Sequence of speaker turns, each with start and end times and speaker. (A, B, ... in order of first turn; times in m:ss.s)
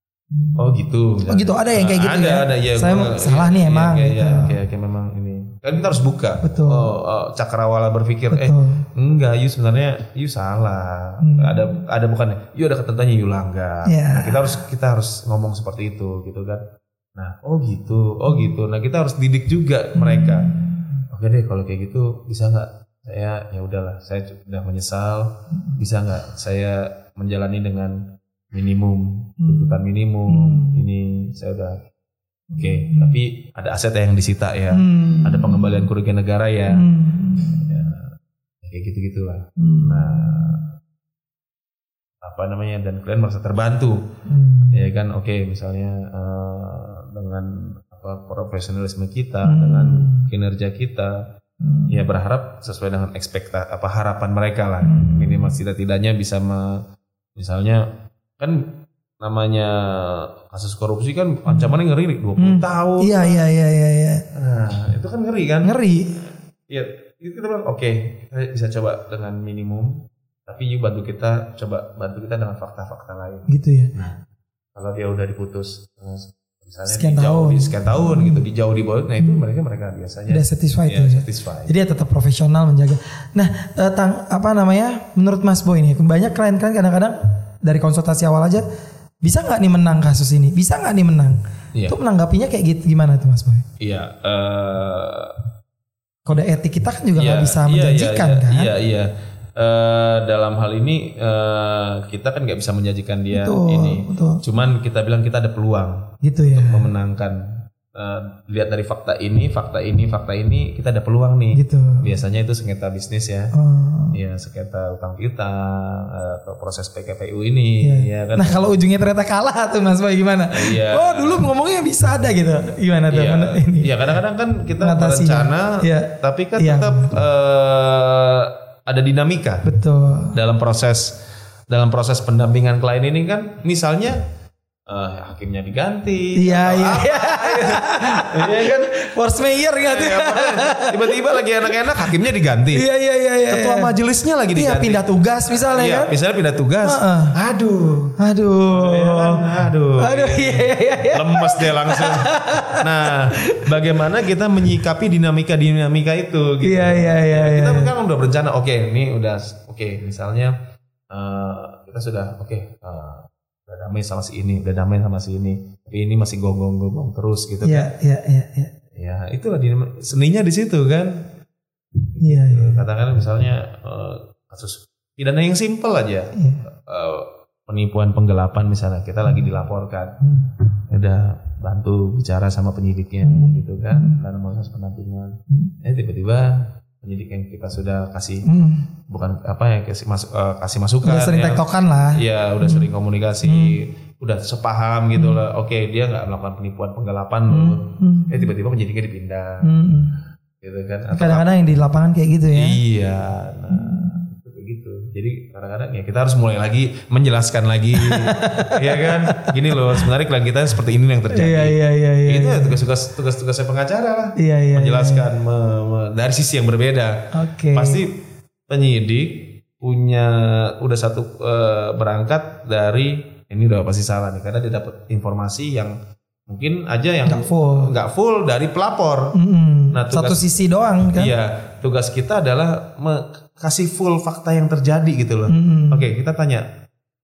0:00.3-0:04.6 A
0:00.6-0:16.6 B
0:06.4-0:06.9 A
0:08.3-0:08.8 A
0:11.2-0:11.8 A
0:13.8-0:14.6 A
0:17.1-0:20.5 B
0:18.3-0:18.5 A
0:19.9-0:21.0 A
0:21.1-0:31.8 B
0:25.5-0:25.8 A
0:29.4-0:30.8 A
0:32.5-0:33.2 A
0:32.6-0:40.6 B
0:34.7-0:35.9 A
0:36.7-0:37.9 A
0:39.6-0:40.6 A
0:42.2-0:44.0 B
0:44.3-0:44.8 A
0:44.7-0:51.2 B
0:49.4-0:50.3 A
0:51.6-0:52.1 A
0:51.9-0:56.8 B
0:54.8-0:55.6 A
0:57.4-0:57.9 B
0:58.4-1:03.3 B
1:01.4-1:01.8 A
1:02.4-1:04.2 A
1:04.3-1:05.7 B
1:05.6-1:06.2 A
1:06.7-1:14.2 B
1:13.5-1:13.9 A
1:14.7-1:21.7 B
1:16.9-1:18.4 A
1:20.3-1:28.6 A
1:29.2-1:33.6 A
1:33.8-1:35.4 B
1:36.2-1:38.7 A
1:37.2-1:53.5 B
1:43.3-1:44.4 A
1:46.2-1:46.9 A
1:51.5-1:52.1 A
1:53.5-1:54.2 A
1:54.1-1:58.7 B
1:57.8-2:04.0 A
2:00.5-2:01.5 B
2:03.1-2:09.6 B
2:04.8-2:07.1 A
2:09.6-2:10.4 A
2:10.3-2:11.2 B
2:11.7-2:14.2 B
2:14.9-2:22.8 B
2:16.4-2:22.2 A
2:22.7-2:23.9 A
2:23.5-2:28.2 B
2:24.5-2:26.1 A
2:26.8-2:27.3 A
2:28.2-2:29.4 A
2:28.7-2:40.6 B
2:30.0-2:33.7 A
2:36.6-2:37.9 A
2:41.1-2:47.9 B
2:47.6-2:48.7 A
2:48.9-2:51.3 B
2:52.2-2:52.8 A
2:52.2-3:00.2 B
2:56.3-2:56.6 A
2:59.2-2:59.6 A
3:00.2-3:00.5 A
3:00.9-3:08.4 B
3:03.2-3:04.2 A
3:08.4-3:08.9 A
3:09.1-3:19.7 B
3:11.0-3:12.9 A
3:13.4-3:13.8 A
3:15.1-3:15.4 A
3:17.5-3:18.5 A
3:19.6-3:20.2 A
3:20.6-3:21.5 B
3:21.1-3:22.8 A
3:22.5-3:46.0 B
3:23.7-3:24.2 A
3:28.0-3:30.1 A
3:31.3-3:32.8 A
3:34.4-3:35.3 A
3:37.3-3:38.0 A
3:46.5-3:49.3 B
3:47.2-3:47.9 A
3:49.3-3:51.3 A
3:49.9-3:50.5 B
3:51.1-3:56.7 B
3:55.5-3:56.1 A